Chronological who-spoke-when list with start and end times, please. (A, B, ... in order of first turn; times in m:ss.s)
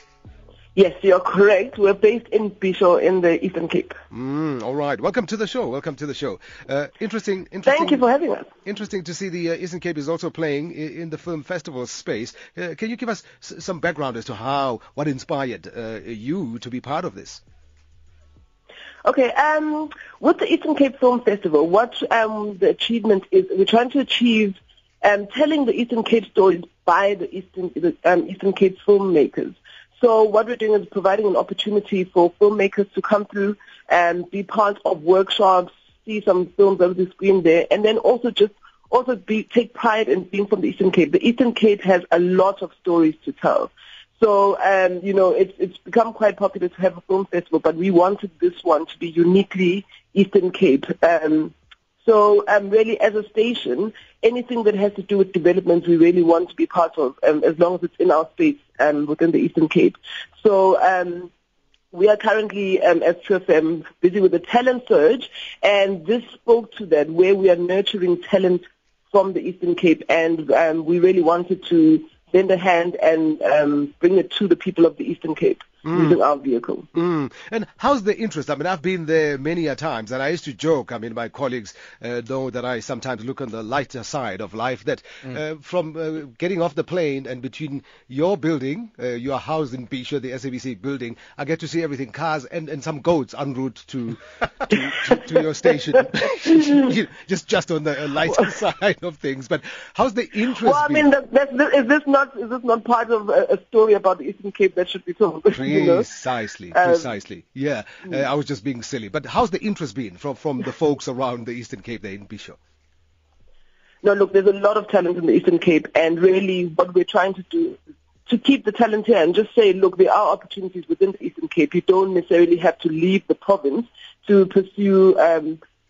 0:00.8-0:04.0 A
0:04.1-0:08.0 B
0:07.7-0:08.5 A
0:08.6-0:17.4 B
0:19.0-0:51.5 A
0:52.0-1:01.3 A
1:01.9-1:16.9 A
1:15.8-1:16.2 B
1:16.9-1:41.1 B
1:40.6-1:46.1 A
1:45.5-1:52.6 B
1:46.7-1:47.1 A
1:54.0-2:05.6 A